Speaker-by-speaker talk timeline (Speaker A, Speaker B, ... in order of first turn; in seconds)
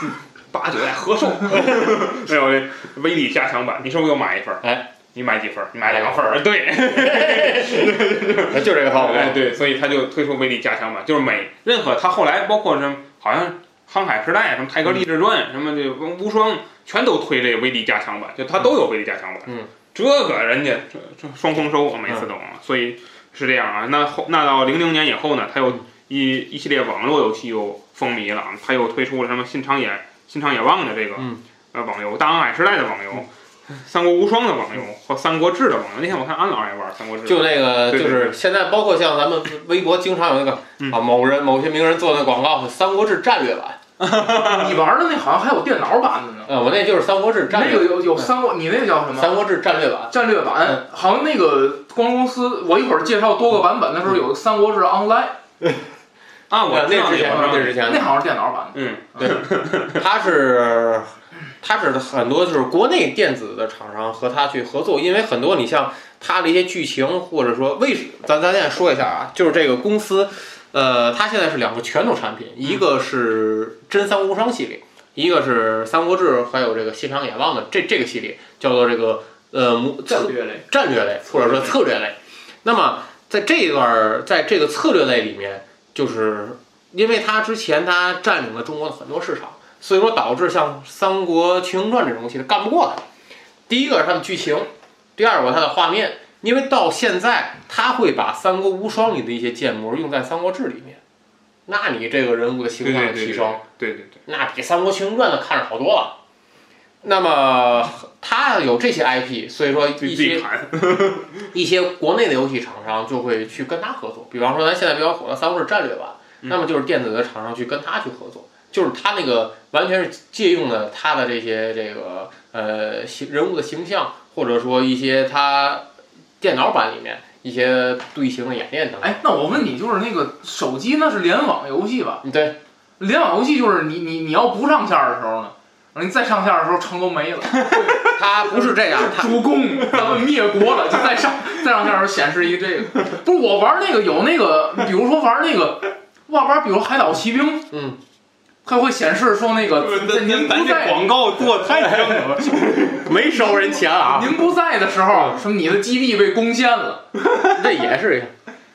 Speaker A: 0.5-38.4, 44.0-44.7, 56.5-57.8, 58.7-60.0, 102.8-104.2, 109.9-111.5, 149.8-153.1
Speaker B: 4.6-4.9, 5.8-9.5, 37.2-43.8, 46.5-48.3, 49.1-50.1, 56.6-58.1, 59.9-93.0, 93.7-101.0, 101.7-103.6, 104.3-106.2, 107.0-110.4, 111.5-125.9, 126.4-129.7, 132.2-132.6, 137.7-140.2, 147.7-148.0, 151.8-154.4, 155.1-155.4, 157.4-158.3
Speaker C: 44.2-46.5, 47.5-49.4, 50.1-55.4, 57.2-59.3, 80.1-80.6, 129.0-132.2, 133.0-147.7, 148.6-151.2, 153.9-157.1